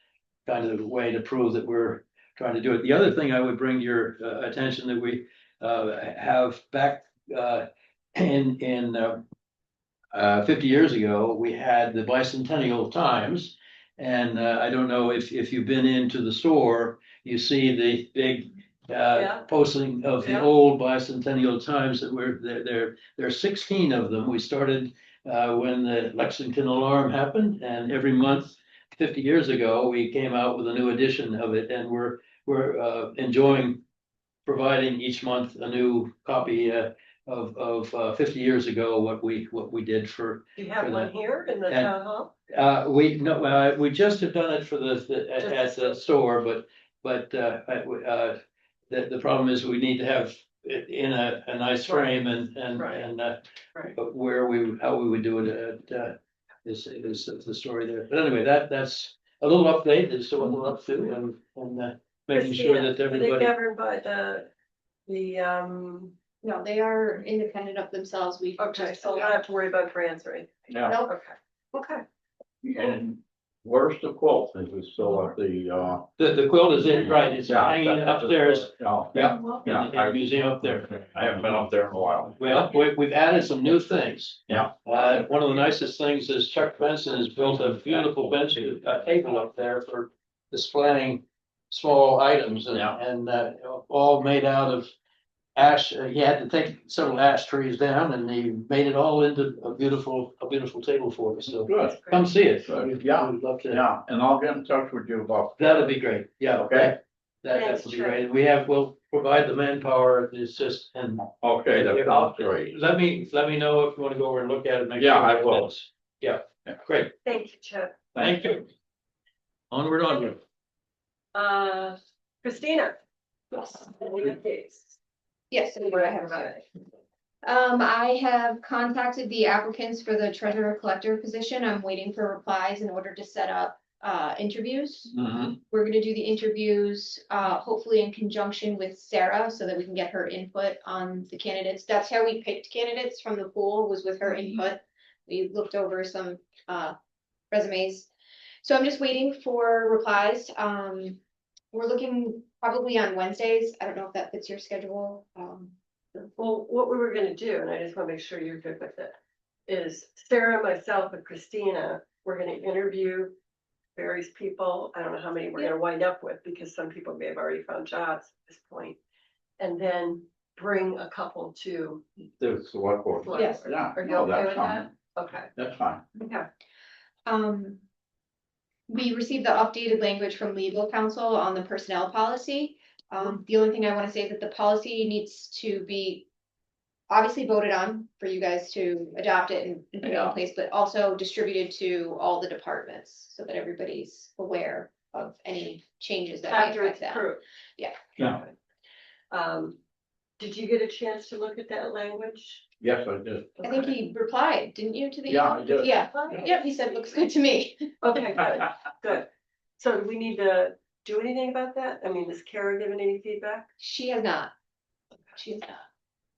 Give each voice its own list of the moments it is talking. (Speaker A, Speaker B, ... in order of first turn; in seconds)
Speaker A: 0.5-9.2, 10.1-33.8, 34.5-41.1, 41.6-41.9, 42.5-48.4, 48.9-53.4, 54.0-63.5, 76.2-81.6, 82.4-94.9, 95.5-103.8, 105.6-117.1, 118.2-118.7, 119.7-120.4
Speaker B: 19.1-19.5, 20.2-20.5, 40.6-42.3, 45.4-45.9, 52.8-53.1, 62.3-64.5, 65.1-66.1, 68.6-70.5, 71.1-72.0, 101.8-102.3, 107.5-108.2, 117.2-118.0, 121.3-123.0, 123.5-125.0, 126.0-126.6, 156.2-159.2, 159.7-163.3, 163.9-169.0, 169.6-172.0, 173.2-175.5, 176.2-176.5, 196.5-197.4, 198.2-198.6, 199.3-199.8, 200.4-202.7, 203.6-203.9, 205.8-206.5, 208.0-209.3, 209.8-213.7
Speaker C: 66.4-69.4, 70.8-71.1, 125.5-126.6, 127.4-135.2, 135.7-146.9, 147.5-148.1, 148.6-151.2, 151.7-155.7, 173.3-173.6, 177.3-177.8, 178.9-186.3, 187.1-197.3, 203.6-207.9, 213.8-214.5, 215.4-215.8
Speaker D: 70.7-71.0, 72.6-76.1, 77.0-82.6, 84.5-84.7, 101.6-102.0, 102.7-105.9, 106.6-106.9, 111.2-112.8, 115.0-115.7, 118.2-118.5, 172.4-174.9, 175.6-176.0, 202.8-203.5, 205.3-206.2